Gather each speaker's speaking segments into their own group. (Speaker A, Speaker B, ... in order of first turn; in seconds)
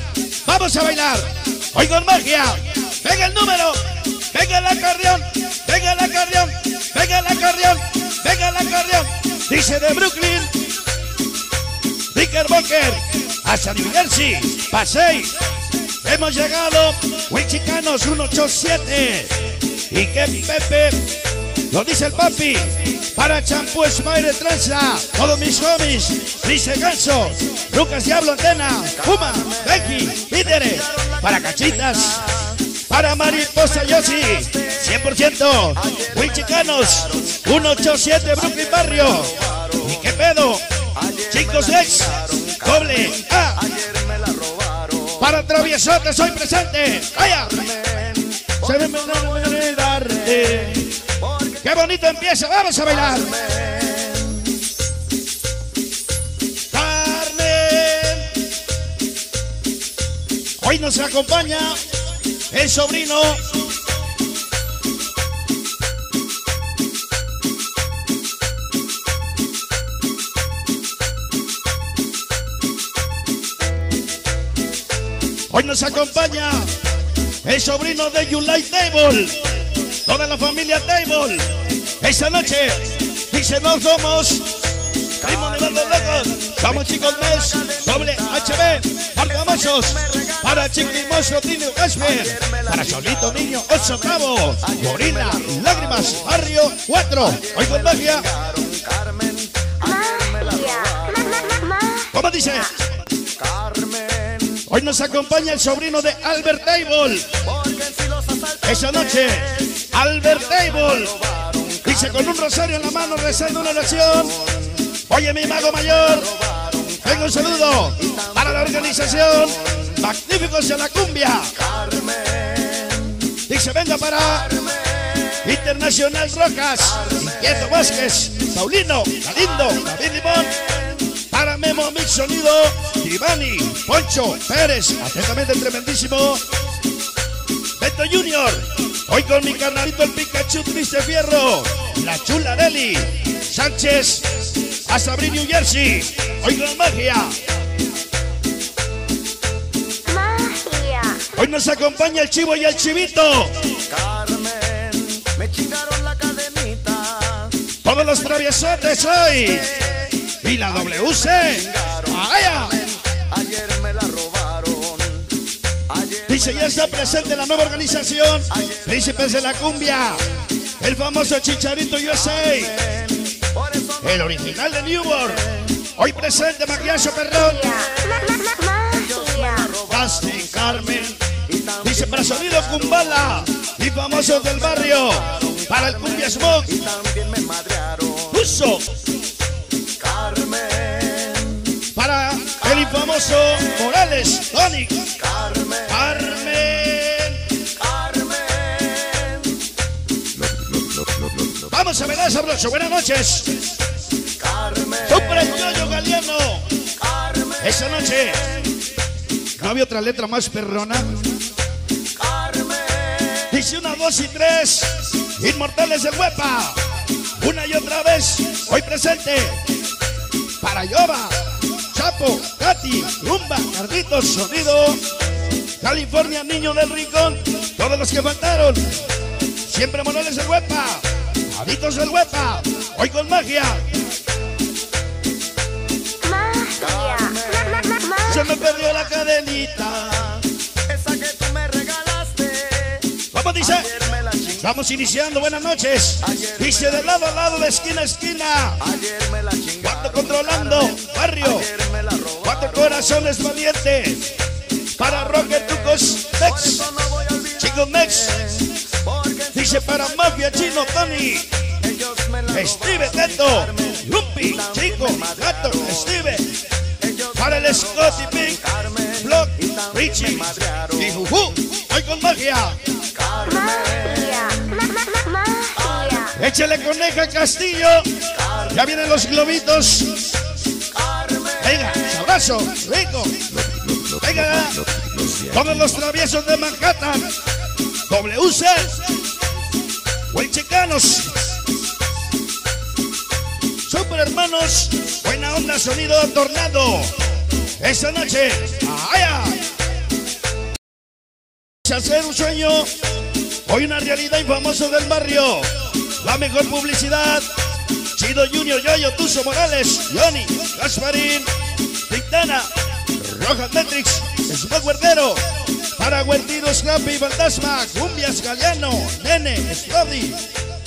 Speaker A: 0.5-10.7, 12.1-15.4, 16.0-21.2, 21.7-40.6, 41.2-43.7, 45.1-47.8, 48.5-51.0, 51.6-53.5, 56.7-58.4, 60.6-61.8, 62.5-63.5, 75.5-76.7, 77.4-84.5, 85.1-98.3, 102.1-102.8, 104.7-107.4, 108.6-111.2, 111.8-121.6, 123.3-124.7, 125.3-136.4, 137.8-147.4, 151.3-153.7, 157.8-162.9, 166.3-173.1, 174.0-177.9, 179.8-181.2, 181.8-186.9, 188.3-188.9, 191.9-195.2, 195.8-197.5, 201.4-203.7, 205.0-206.7, 207.6-208.6, 209.6-211.3, 213.4-216.8, 217.4-219.7, 220.6-225.0, 225.8-228.9, 229.6-233.9, 238.2-240.5, 243.3-248.9, 249.8-251.7, 252.4-254.3, 255.0-257.0, 257.6-258.9, 259.5-261.6, 262.4-266.6, 267.3-272.8, 276.3-280.4, 281.6-287.3, 288.1-289.2, 290.3-291.6, 293.8-297.2, 297.8-299.7, 301.8-302.9, 303.7-307.5, 308.1-311.5, 312.1-315.4, 315.9-320.4
Speaker B: 36.0-36.2, 36.9-37.4, 39.1-39.7, 41.0-42.6, 43.7-45.2, 47.8-48.6, 51.2-51.6, 53.2-54.6, 86.9-88.7, 89.8-90.4, 92.2-93.1, 94.9-95.7, 97.7-101.6, 103.4-104.6, 107.5-108.6, 111.0-111.9, 116.4-117.0, 121.7-123.2, 153.9-157.6, 161.5-162.1, 163.1-165.3, 165.9-166.7, 173.4-173.9, 178.9-179.9, 181.7-182.6, 186.8-188.3, 190.0-191.7, 195.3-195.9, 197.8-199.6, 204.4-205.1, 207.1-207.6, 212.2-213.4, 236.8-238.1, 240.9-243.1, 243.8-244.6, 248.9-250.5, 251.6-252.6, 256.6-257.6, 259.0-260.0, 261.8-263.6, 265.0-265.4, 268.7-269.1, 270.5-270.8, 273.1-274.4, 275.8-276.1, 281.0-281.6
Speaker C: 99.9-102.1, 150.1-151.3, 177.7-179.7, 236.2-238.2, 273.5-276.3